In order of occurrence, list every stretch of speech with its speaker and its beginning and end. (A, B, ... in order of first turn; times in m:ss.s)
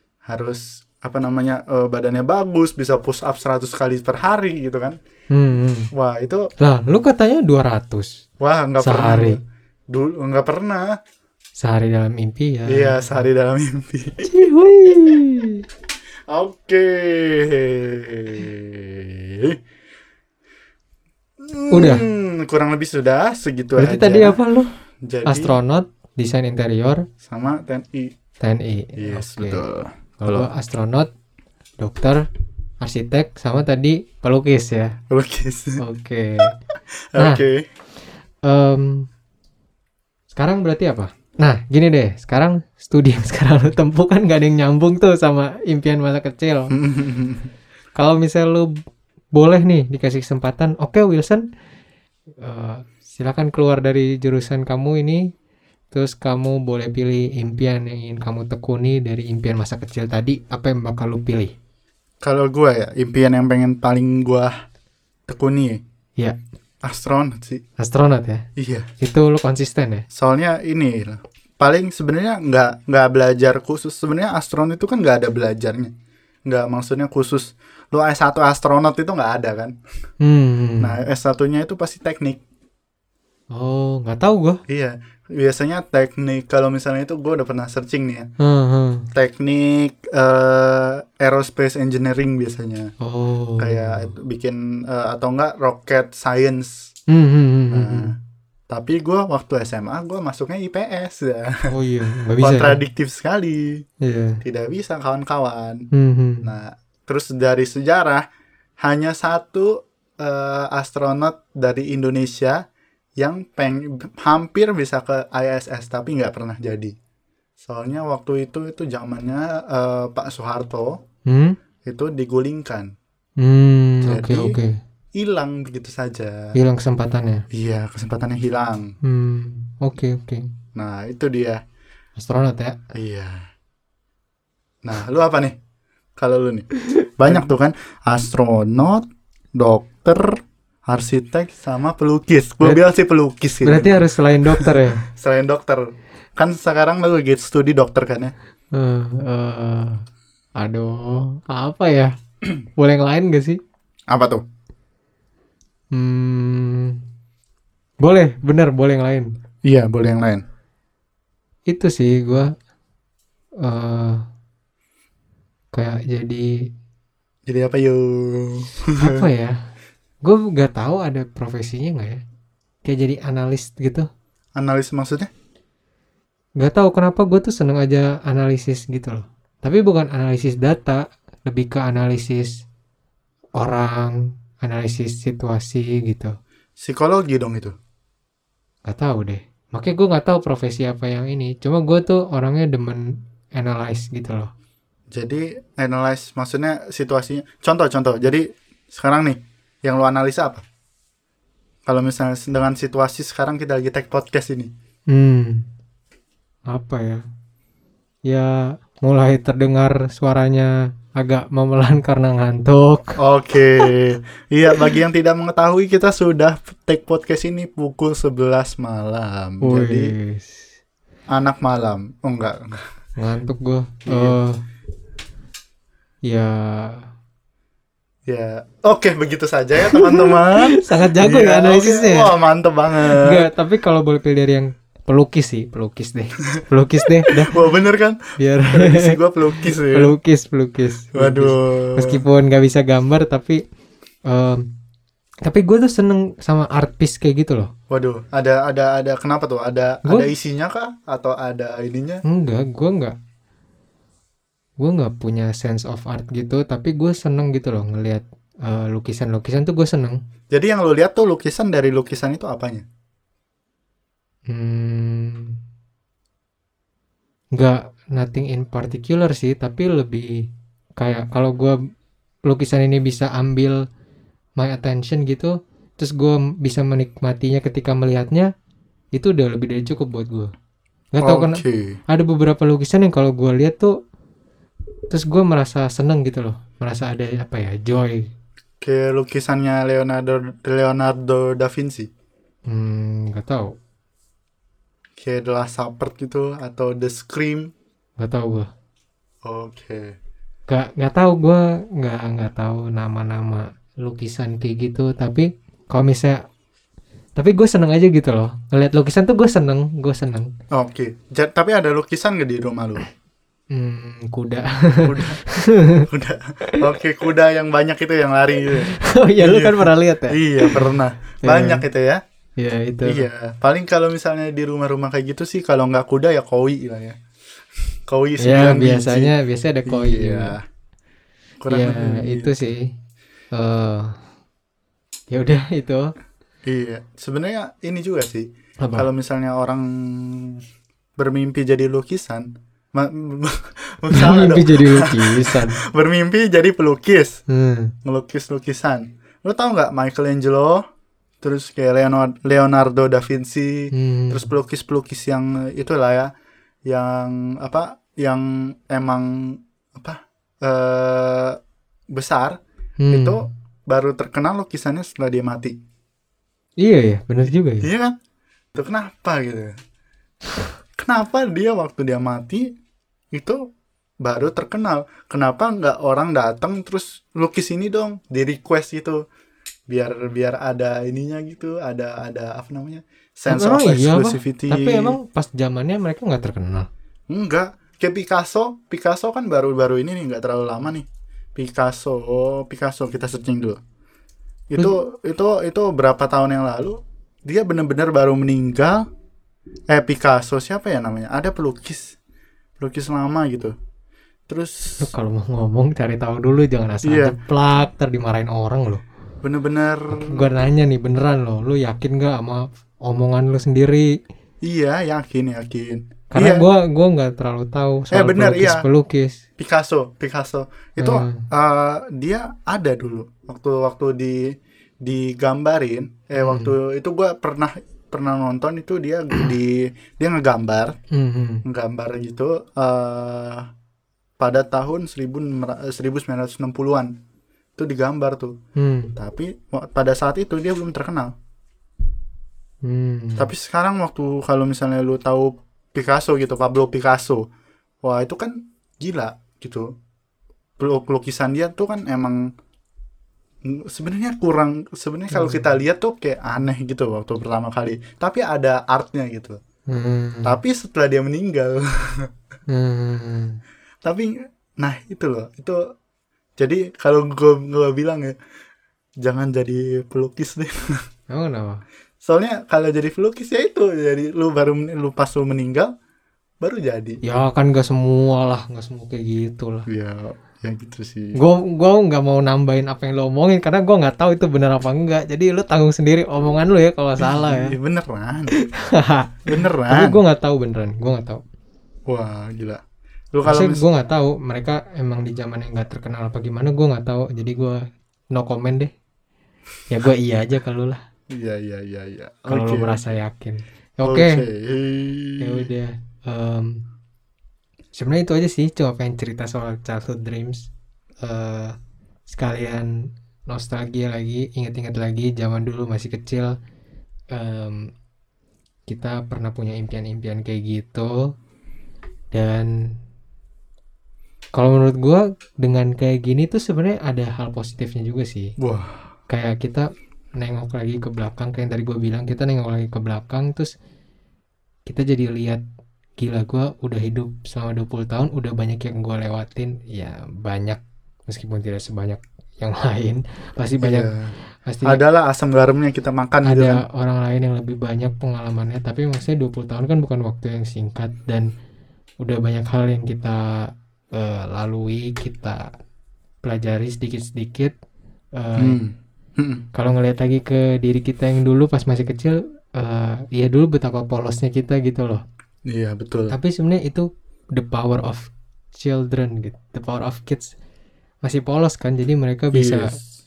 0:00.3-0:05.0 A
0:05.3-0:05.9 B
0:05.9-0:06.5 A
0:06.6-0:08.2 B
0:08.4-0:11.0 A
0:08.8-0:09.4 B
0:11.6-0:13.0 B
0:12.7-0:14.3 A
0:14.2-0:15.6 B
0:16.3-0:19.6 A
0:21.4-0:24.4 A
0:21.7-0:22.0 B
0:23.8-0:24.7 B
0:25.0-0:25.6 A
0:25.2-0:27.0 B
0:27.2-0:28.1 A
0:28.4-0:29.6 B
0:29.0-0:30.5 A
0:30.2-0:31.1 B
0:31.8-0:32.2 B
0:32.8-0:34.9 B
0:35.1-0:35.8 A
0:35.8-0:36.5 B
0:37.1-0:37.6 A
0:38.4-0:39.0 B
0:40.3-0:46.7 B
0:46.7-0:47.5 A
0:48.0-0:48.7 B
0:49.3-0:51.4 B
0:52.4-0:55.2 B
0:55.9-1:01.5 B
1:02.2-1:04.5 A
1:05.3-1:05.8 A
1:06.8-1:07.6 A
1:07.8-1:08.4 B
1:08.6-1:08.8 A
1:09.0-1:10.0 B
1:10.1-1:15.9 A
1:16.5-1:19.7 A
1:20.2-1:21.0 B
1:20.8-1:22.4 A
1:23.5-1:24.6 B
1:24.7-1:28.3 A
1:28.4-1:29.0 B
1:29.1-1:32.9 A
1:33.0-1:34.1 B
1:33.6-1:36.9 A
1:37.1-1:38.1 B
1:37.7-1:38.1 A
1:38.7-1:41.5 A
1:41.7-1:42.8 B
1:42.4-1:43.8 A
1:44.0-1:44.4 B
1:44.4-1:45.9 A
1:45.9-1:46.5 B
1:46.4-1:48.2 A
1:48.8-1:52.6 A
1:53.2-1:56.9 A
1:57.6-2:01.0 A
2:01.3-2:01.6 B
2:01.8-2:02.9 A
2:03.4-2:04.8 B
2:04.0-2:04.6 A
2:05.2-2:06.5 A
2:06.5-2:07.4 B
2:07.5-2:08.9 A
2:09.0-2:10.5 B
2:10.7-2:11.6 A
2:12.2-2:12.8 B
2:12.9-2:13.4 A
2:14.8-2:15.6 A
2:16.2-2:19.0 A
2:19.6-2:20.3 A
2:20.9-2:25.8 A
2:23.6-2:25.0 B
2:26.4-2:28.3 A
2:28.7-2:30.0 B
2:30.6-2:32.1 B
2:32.8-2:33.6 B
2:34.1-2:34.4 A
2:35.9-2:37.0 B
2:38.0-2:39.3 B
2:39.6-2:40.4 A
2:41.7-2:42.5 B
2:43.6-2:44.2 B
2:45.7-2:46.6 B
2:47.5-2:49.3 A
2:49.0-2:49.5 B
2:50.2-2:52.2 B
2:52.8-2:54.1 B
2:54.6-2:55.3 A
2:56.6-3:02.6 B
3:03.6-3:06.3 B
3:06.8-3:07.7 A
3:08.8-3:14.5 B
3:15.1-3:20.6 A
3:21.8-3:24.7 A
3:25.1-3:25.7 B
3:26.7-3:27.2 B
3:28.3-3:33.2 B
3:33.2-3:40.1 A
3:39.6-3:40.6 B
3:41.3-3:42.7 A
3:43.2-3:44.6 B
3:44.1-3:44.4 A
3:46.3-3:47.0 B
3:48.3-3:53.5 A
3:49.9-3:52.3 B
3:53.1-3:57.5 B
3:56.6-4:00.1 A
3:58.4-4:03.6 B
4:01.1-4:02.2 A
4:04.3-4:04.7 B
4:05.4-4:07.7 B
4:07.9-4:12.2 A
4:12.3-4:13.1 B
4:14.8-4:20.2 B
4:20.5-4:22.8 A
4:24.5-4:25.6 B
4:27.5-4:30.4 B
4:31.0-4:31.8 B
4:32.4-4:33.8 B
4:34.6-4:38.5 B
4:39.1-4:40.5 B
4:41.1-4:43.9 B
4:41.2-4:42.0 A
4:45.1-4:48.3 B
4:48.8-4:52.1 A
4:52.7-4:53.7 B
4:55.2-4:57.7 A
4:58.2-4:58.7 B
4:59.4-5:00.1 A
5:00.7-5:06.4 B
5:07.4-5:10.5 B
5:10.7-5:13.0 A
5:13.7-5:16.1 B
5:15.0-5:15.4 A
5:16.1-5:22.2 A
5:19.0-5:20.9 B
5:21.4-5:21.8 B
5:22.6-5:23.3 B
5:23.0-5:27.2 A
5:28.1-5:29.3 A
5:28.4-5:30.5 B
5:29.9-5:30.6 A
5:31.6-5:32.5 A
5:31.7-5:32.9 B
5:33.5-5:34.1 B
5:35.3-5:36.1 B
5:36.6-5:40.6 A
5:41.2-5:47.4 A
5:44.1-5:45.8 B
5:47.5-5:47.9 B
5:48.0-5:50.8 A
5:51.4-5:56.3 A
5:53.9-5:54.5 B
5:56.9-6:01.6 A
6:02.1-6:05.8 A
6:03.0-6:03.4 B
6:06.8-6:07.9 B
6:07.8-6:08.1 A
6:08.7-6:09.7 A
6:11.0-6:12.7 A
6:13.3-6:13.6 A
6:14.2-6:19.2 A
6:19.9-6:25.2 A
6:23.5-6:26.9 B
6:27.3-6:33.8 A
6:34.7-6:39.0 A
6:39.9-6:42.1 A
6:42.8-6:43.7 A
6:44.5-6:45.1 A
6:45.0-6:49.0 B
6:47.0-6:47.3 A
6:49.4-6:50.5 A
6:50.1-6:54.1 B
6:54.6-6:56.7 A
6:56.3-6:59.4 B
6:58.1-6:58.8 A
6:59.6-7:11.0 A
7:01.0-7:01.4 B
7:06.4-7:06.7 B
7:11.1-7:11.6 B
7:11.6-7:13.7 A
7:14.4-7:17.1 A
7:17.8-7:18.6 A
7:18.8-7:19.1 B
7:19.2-7:21.3 A
7:22.8-7:23.5 B
7:23.4-7:27.4 A
7:28.0-7:29.9 A
7:30.8-7:32.5 A
7:33.6-7:39.6 A
7:35.3-7:35.6 B
7:39.9-7:40.6 B
7:40.4-7:42.3 A
7:42.7-7:43.6 B
7:44.0-7:45.8 A
7:46.6-7:48.3 A
7:49.2-7:50.8 A
7:51.3-7:51.8 B
7:52.2-7:55.9 A
7:56.6-7:57.2 A
7:57.2-7:59.8 B
7:59.9-8:01.4 A
8:01.4-8:07.8 B
8:07.2-8:08.5 A
8:08.5-8:11.4 B
8:09.5-8:10.2 A
8:12.1-8:12.8 A
8:13.3-8:13.8 A
8:13.4-8:17.8 B
8:18.3-8:18.9 B
8:19.9-8:21.0 B
8:21.3-8:22.9 A
8:22.5-8:24.4 B
8:24.0-8:25.7 A
8:25.4-8:26.8 B
8:27.9-8:30.7 B
8:31.2-8:31.7 B
8:32.3-8:32.9 B
8:33.5-8:36.5 B
8:37.3-8:37.8 B
8:38.9-8:41.3 B
8:42.3-8:42.7 B
8:44.5-8:48.5 B
8:48.6-8:49.0 A
8:49.3-8:53.7 B
8:54.8-8:55.6 B
8:56.2-9:04.1 B
9:03.8-9:04.3 A
9:04.6-9:05.0 B
9:04.8-9:06.8 A
9:06.4-9:11.5 B
9:12.2-9:15.7 B
9:16.4-9:17.7 B
9:18.4-9:18.8 B
9:18.6-9:19.6 A
9:19.7-9:25.2 B
9:25.7-9:26.3 A
9:26.3-9:30.5 B
9:31.2-9:32.9 B
9:32.5-9:33.0 A